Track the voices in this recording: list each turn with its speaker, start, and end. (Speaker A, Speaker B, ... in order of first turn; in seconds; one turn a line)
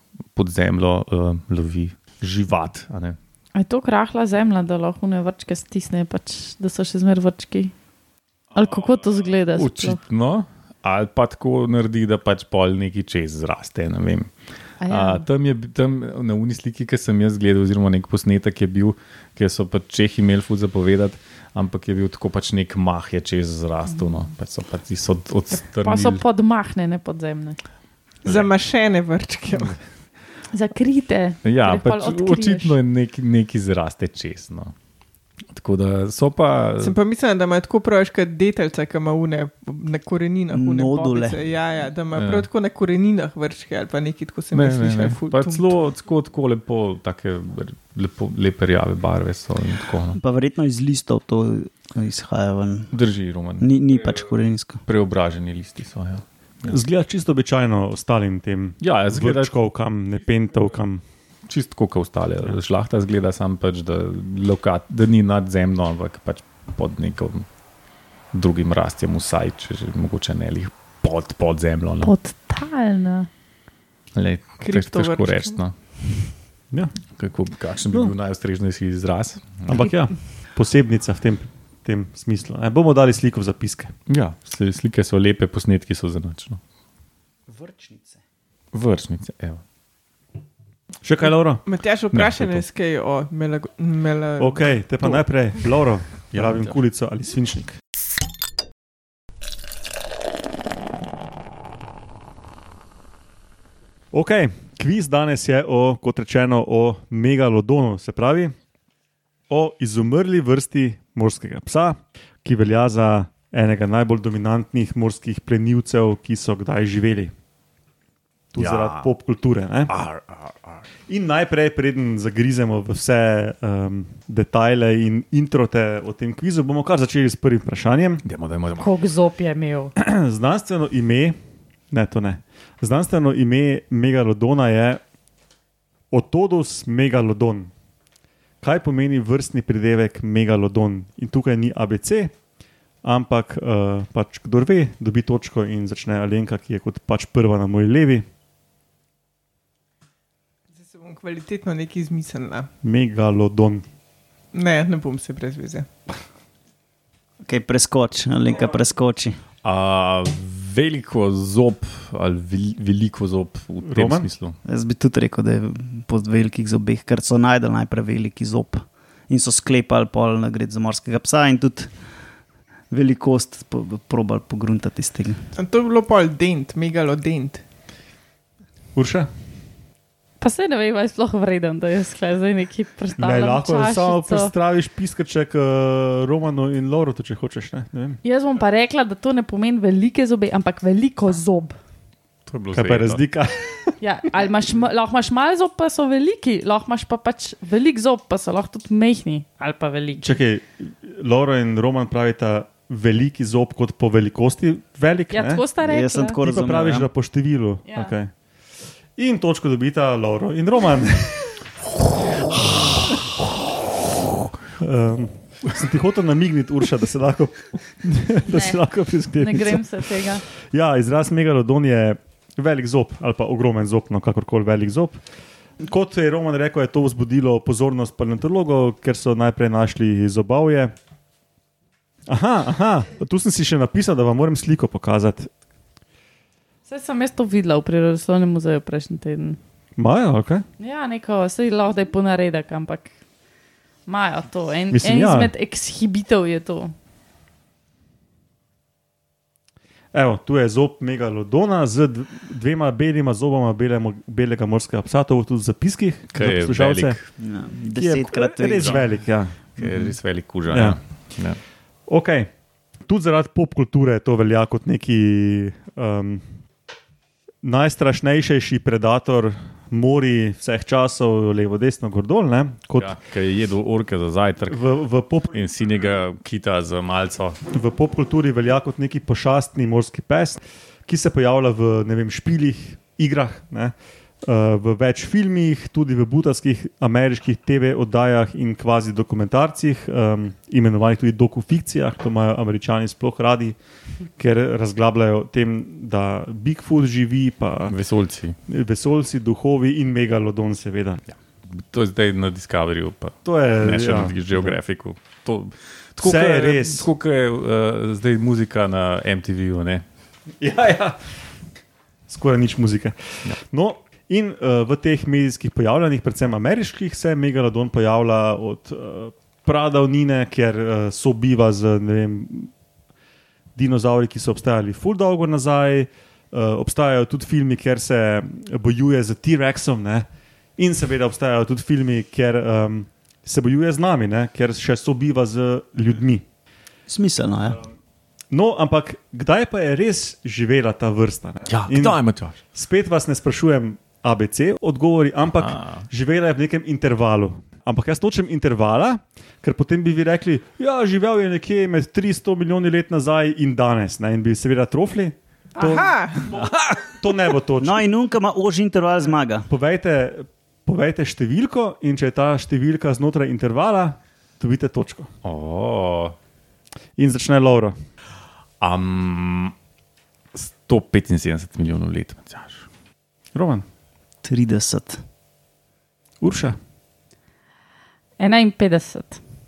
Speaker A: 0.3-3.2
Speaker B: 3.5-7.7
Speaker B: 8.5-10.0
Speaker A: 9.5-14.3
Speaker B: 14.8-15.2
Speaker A: 14.9-26.2
Speaker B: 25.5-27.6
Speaker C: 28.2-29.8
Speaker B: 30.5-32.8
Speaker A: 31.4-34.7
Speaker A: 35.5-37.0
Speaker C: 36.8-45.7
Speaker D: 40.5-41.4
Speaker A: 42.1-42.5
Speaker A: 44.5-50.2
Speaker D: 50.1-52.9
Speaker A: 52.9-53.8
Speaker D: 53.6-54.8
Speaker A: 54.9-56.7
Speaker E: 56.6-61.0
Speaker A: 58.8-59.5
Speaker A: 61.5-67.5
Speaker A: 68.3-72.1
Speaker B: 72.0-73.3
Speaker A: 74.1-75.7
Speaker C: 74.6-75.5
Speaker A: 77.2-79.8
Speaker E: 79.7-83.9
Speaker A: 84.1-86.6
Speaker D: 87.5-88.2
Speaker A: 88.7-89.6
Speaker E: 91.0-91.6
Speaker C: 91.7-94.8
Speaker A: 92.1-92.6
Speaker E: 94.4-97.8
Speaker A: 96.3-96.7
Speaker E: 104.1-108.5
Speaker E: 109.5-117.3
Speaker E: 118.5-119.9
Speaker A: 118.6-119.1
Speaker A: 119.9-120.8
Speaker E: 121.1-128.2
Speaker A: 128.2-128.9
Speaker B: 128.8-129.9
Speaker E: 129.9-131.4
Speaker E: 131.9-135.0
Speaker E: 136.1-137.7
Speaker E: 138.6-142.3
Speaker E: 143.0-148.2
Speaker C: 150.7-152.7
Speaker E: 152.8-153.8
Speaker C: 154.5-155.9
Speaker D: 157.4-159.4
Speaker A: 159.6-164.6
Speaker E: 163.8-164.3
Speaker D: 164.6-171.9
Speaker D: 172.9-175.5
Speaker C: 175.6-177.6
Speaker E: 178.9-179.3
Speaker B: 180.4-184.5
Speaker E: 183.2-188.2
Speaker B: 188.2-191.7
Speaker A: 192.5-193.2
Speaker E: 192.7-193.9
Speaker B: 194.0-200.3
Speaker E: 200.2-205.6
Speaker B: 205.3-206.4
Speaker D: 205.8-207.1
Speaker E: 206.4-208.3
Speaker B: 207.8-208.1
Speaker E: 209.2-211.5
Speaker E: 214.7-219.9
Speaker B: 218.5-220.4
Speaker E: 220.7-225.2
Speaker E: 225.8-230.9
Speaker E: 232.3-235.5
Speaker B: 236.8-239.6
Speaker E: 240.0-240.6
Speaker B: 240.8-243.1
Speaker B: 244.1-246.9
Speaker E: 244.9-245.5
Speaker E: 250.1-257.2
Speaker A: 256.3-257.3
Speaker D: 257.4-259.1
Speaker E: 257.9-259.9
Speaker A: 259.8-261.6
Speaker E: 260.7-261.0
Speaker E: 262.1-262.5
Speaker E: 263.1-266.4
Speaker E: 267.6-273.1
Speaker A: 273.0-274.8
Speaker E: 274.7-275.6
Speaker A: 275.5-277.6
Speaker E: 277.7-293.8
Speaker E: 294.4-298.0
Speaker A: 297.9-298.6
Speaker E: 298.7-301.2
Speaker A: 301.7-310.0
Speaker E: 303.4-304.8
Speaker E: 306.2-307.1
Speaker E: 310.6-311.2
Speaker E: 312.3-322.7
Speaker E: 323.8-336.4
Speaker D: 337.1-337.8
Speaker E: 338.5-342.2
Speaker A: 341.7-342.6
Speaker E: 342.7-358.0
Speaker A: 345.6-346.1
Speaker C: 355.8-356.5
Speaker A: 356.6-357.0
Speaker D: 357.8-359.7
Speaker E: 359.7-365.3
Speaker A: 365.4-366.4
Speaker E: 367.2-367.9
Speaker A: 368.8-369.7
Speaker A: 370.5-372.9
Speaker E: 373.5-373.8
Speaker D: 374.4-375.2
Speaker E: 376.4-376.8
Speaker B: 378.4-379.4